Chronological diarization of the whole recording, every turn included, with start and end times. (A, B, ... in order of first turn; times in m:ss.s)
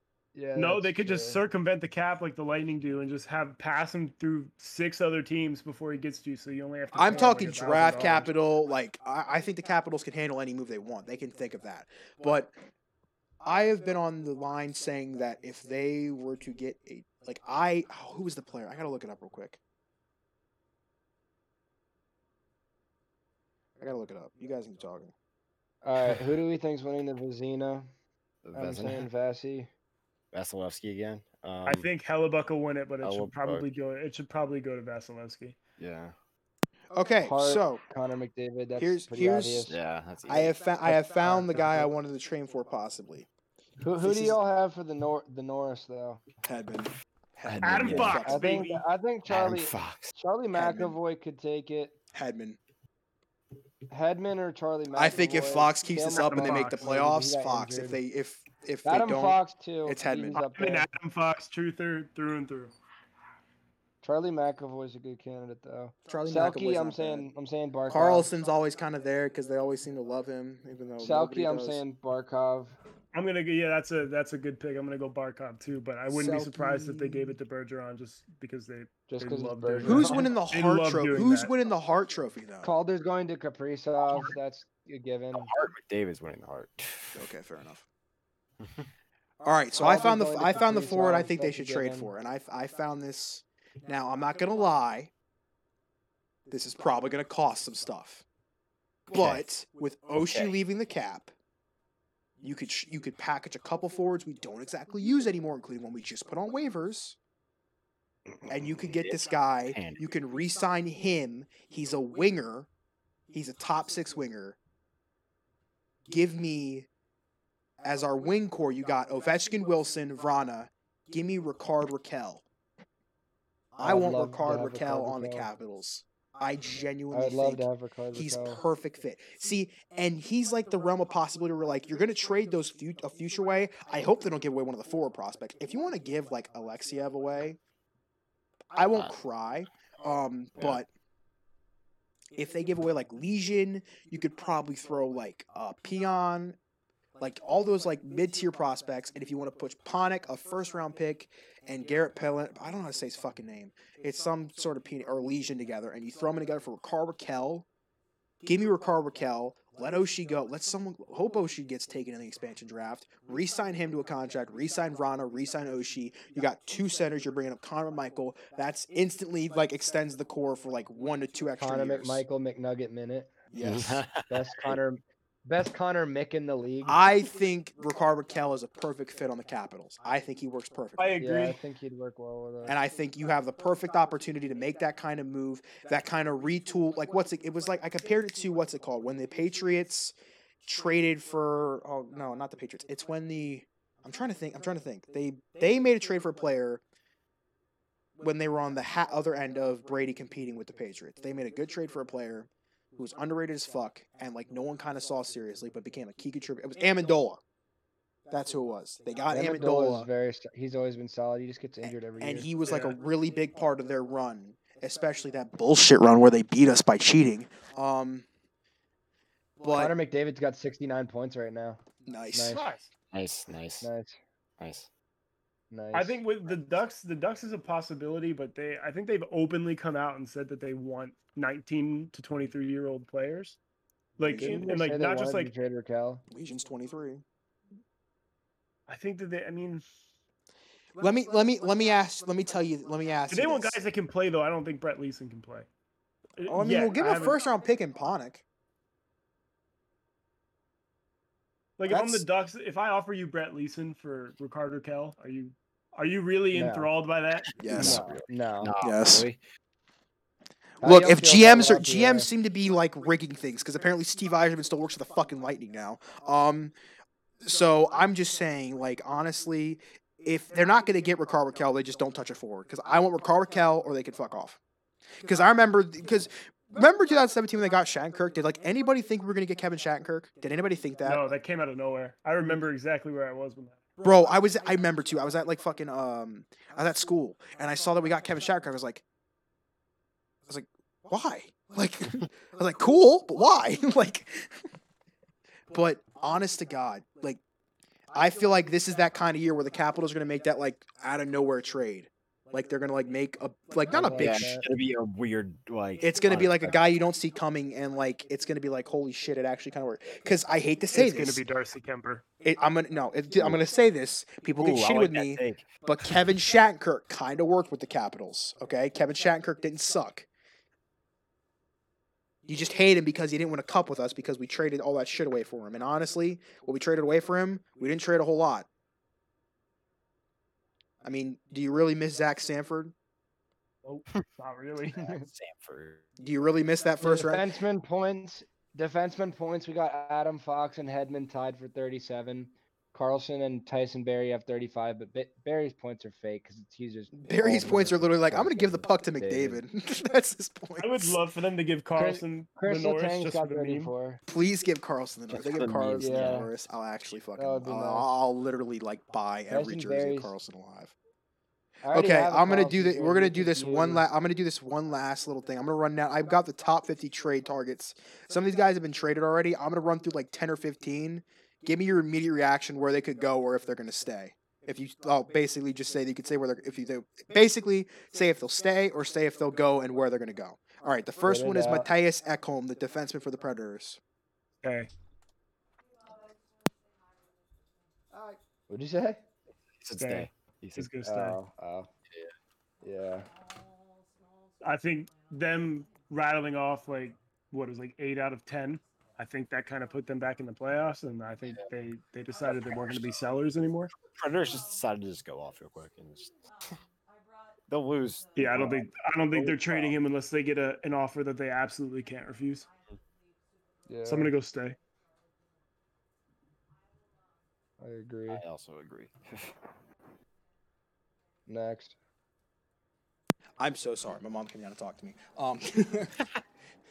0:00.3-0:01.4 A
0:00.5-0:08.3 B
0:06.9-0:12.5 C
0:07.0-0:08.3 A
0:13.4-0:19.6 C
0:23.8-0:25.1 C
0:25.8-0:27.9 A
0:28.4-0:29.1 D
0:28.5-0:29.7 A
0:30.3-0:31.9 D
0:31.6-0:35.6 B
0:33.0-0:33.6 D
0:35.8-0:36.1 D
0:36.9-0:37.8 C
0:37.2-0:39.8 A
0:38.8-0:39.7 C
0:39.6-0:40.6 D
0:40.3-0:43.3 C
0:40.8-0:41.9 A
0:43.8-0:46.2 A
0:44.0-0:44.4 C
0:46.4-0:48.6 C
0:47.4-0:48.2 D
0:47.6-0:48.8 B
0:48.2-0:51.9 A
0:49.3-0:50.1 D
0:50.5-0:51.0 C
0:52.1-0:52.6 C
0:53.9-0:58.0 A
0:54.9-1:00.4 C
0:56.1-0:56.9 B
0:58.8-1:00.9 A
1:00.3-1:02.7 B
1:04.0-1:08.3 A
1:06.1-1:07.3 C
1:07.9-1:11.8 C
1:11.0-1:12.8 A
1:13.1-1:21.5 B
1:16.1-1:17.4 C
1:19.1-1:20.3 A
1:19.8-1:22.7 C
1:22.6-1:25.5 A
1:25.3-1:27.3 D
1:27.1-1:27.8 C
1:29.4-1:35.1 C
1:29.8-1:32.1 A
1:36.5-1:38.2 C
1:39.1-1:41.3 C
1:39.1-1:39.4 D
1:40.2-1:40.6 D
1:42.4-1:47.2 C
1:48.5-1:50.0 D
1:48.5-1:52.7 C
1:53.3-1:54.6 C
1:56.1-1:56.9 C
1:57.8-2:02.4 C
2:03.7-2:17.6 C
2:03.8-2:05.5 A
2:07.1-2:08.6 A
2:18.7-2:20.9 C
2:20.6-2:20.8 D
2:22.3-2:26.6 C
2:27.2-2:37.7 C
2:38.4-2:52.2 C
2:51.6-2:53.3 A
2:53.5-2:54.0 C
2:53.6-2:54.8 D
2:54.3-2:57.0 A
2:56.8-3:01.2 C
3:01.0-3:01.6 B
3:01.2-3:02.8 A
3:02.6-3:16.8 C
3:18.2-3:27.4 C
3:28.3-3:30.1 C
3:29.3-3:32.5 A
3:31.8-3:38.2 C
3:32.6-3:33.0 B
3:39.6-3:39.9 C
3:39.7-3:41.8 A
3:42.0-3:42.6 C
3:42.3-3:42.6 A
3:42.5-3:42.9 B
3:43.1-3:43.9 D
3:43.8-3:44.2 A
3:44.6-3:44.9 D
3:45.7-3:46.2 A
3:45.9-3:53.6 B
3:54.2-3:54.7 C
3:54.2-3:55.5 B
3:54.4-3:56.2 A
3:56.3-3:57.2 C
3:58.9-3:59.8 B
4:01.0-4:03.8 C
4:03.3-4:05.7 B
4:06.4-4:07.4 B
4:06.5-4:08.4 C
4:11.8-4:17.6 B
4:11.9-4:12.2 C
4:16.5-4:16.9 A
4:17.6-4:18.0 C
4:17.6-4:19.4 D
4:17.7-4:18.7 A
4:18.8-4:19.2 C
4:20.8-4:22.3 A
4:20.8-4:26.7 C
4:27.4-4:34.6 C
4:35.2-4:41.2 C
4:41.0-4:43.8 B
4:44.0-4:49.0 C
4:50.5-4:54.6 C
4:55.7-4:57.4 C
4:58.1-5:04.4 C
5:03.9-5:04.7 A
5:04.2-5:06.8 D
5:06.0-5:11.4 C
5:10.9-5:12.2 B
5:12.4-5:20.3 C
5:14.6-5:16.1 D
5:22.5-5:28.7 C
5:31.0-5:32.9 C
5:33.8-5:35.0 B
5:34.9-5:36.0 D
5:35.0-5:35.2 A
5:36.2-5:37.5 C
5:37.0-5:48.1 A
5:47.2-5:51.2 C
5:47.4-5:49.6 D
5:50.8-5:53.9 B
5:52.0-5:54.2 A
5:54.3-6:00.9 C
5:55.3-5:56.5 D
5:56.0-5:56.5 A
5:57.4-5:58.1 A
5:59.5-6:00.3 A
6:01.8-6:04.0 A
6:01.9-6:24.0 C
6:21.2-6:21.9 A
6:24.6-6:24.9 B
6:28.7-6:29.2 A
6:29.8-6:30.9 D
6:30.0-6:31.4 B
6:31.0-6:31.9 A
6:32.1-6:32.3 D
6:32.8-6:33.3 A
6:34.6-6:43.9 B
6:42.5-6:43.2 D
6:44.1-6:46.3 D
6:47.7-6:49.9 D
6:48.4-6:52.7 B
6:48.5-6:48.8 A
6:53.9-6:54.3 A
6:54.0-6:54.8 B
6:57.8-6:58.4 A
6:58.3-6:59.6 D
7:01.5-7:01.9 A
7:03.6-7:06.2 C